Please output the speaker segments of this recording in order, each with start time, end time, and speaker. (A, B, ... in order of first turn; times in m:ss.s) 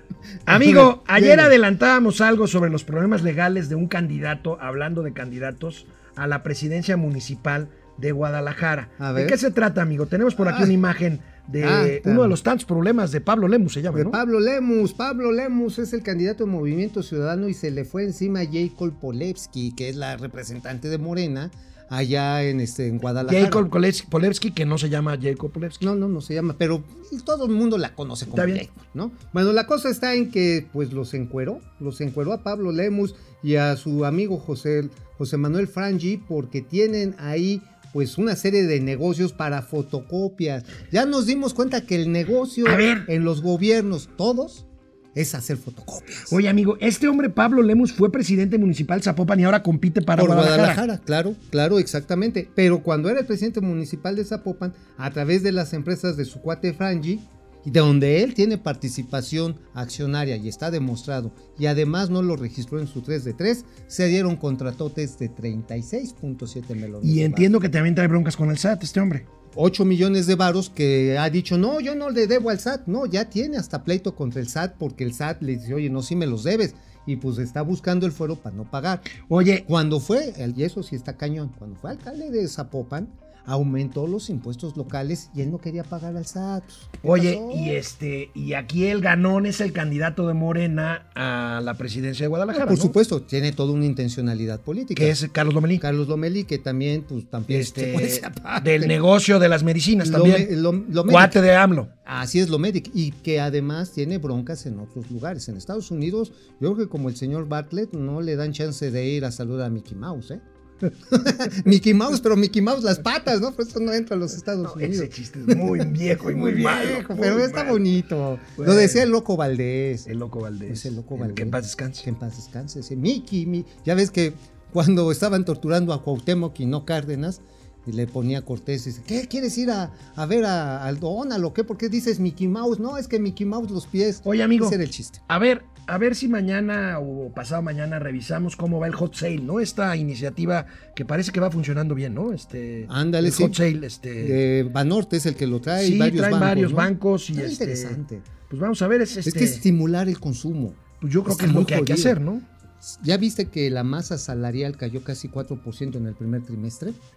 0:00.4-0:14.2 A
0:00.5-0:01.5 B
0:09.0-0:09.4 B
0:10.4-0:10.7 B
0:11.6-0:12.4 B
0:13.9-0:23.7 B
0:23.2-0:25.8 A
0:25.8-0:46.4 B
0:28.3-0:28.6 A
0:42.6-0:43.1 A
0:46.3-0:50.8 A
0:50.1-1:07.7 B
1:07.0-1:09.3 A
1:09.5-1:19.1 B
1:19.2-1:19.6 A
1:19.6-1:27.8 B
1:27.0-1:32.9 A
1:32.5-1:35.2 B
1:34.9-1:35.8 A
1:35.8-1:38.9 B
1:37.5-1:40.5 A
1:40.0-1:41.4 B
1:41.0-1:41.9 A
1:42.0-1:50.4 B
1:51.1-1:55.6 B
1:54.6-1:57.9 A
1:56.3-2:00.1 B
1:58.6-1:59.0 A
2:00.0-2:02.0 A
2:00.7-2:15.2 B
2:14.2-2:24.4 A
2:22.8-2:23.6 B
2:24.2-2:28.2 B
2:25.8-2:29.6 A
2:29.2-2:32.2 B
2:31.0-2:32.4 A
2:32.8-2:37.0 B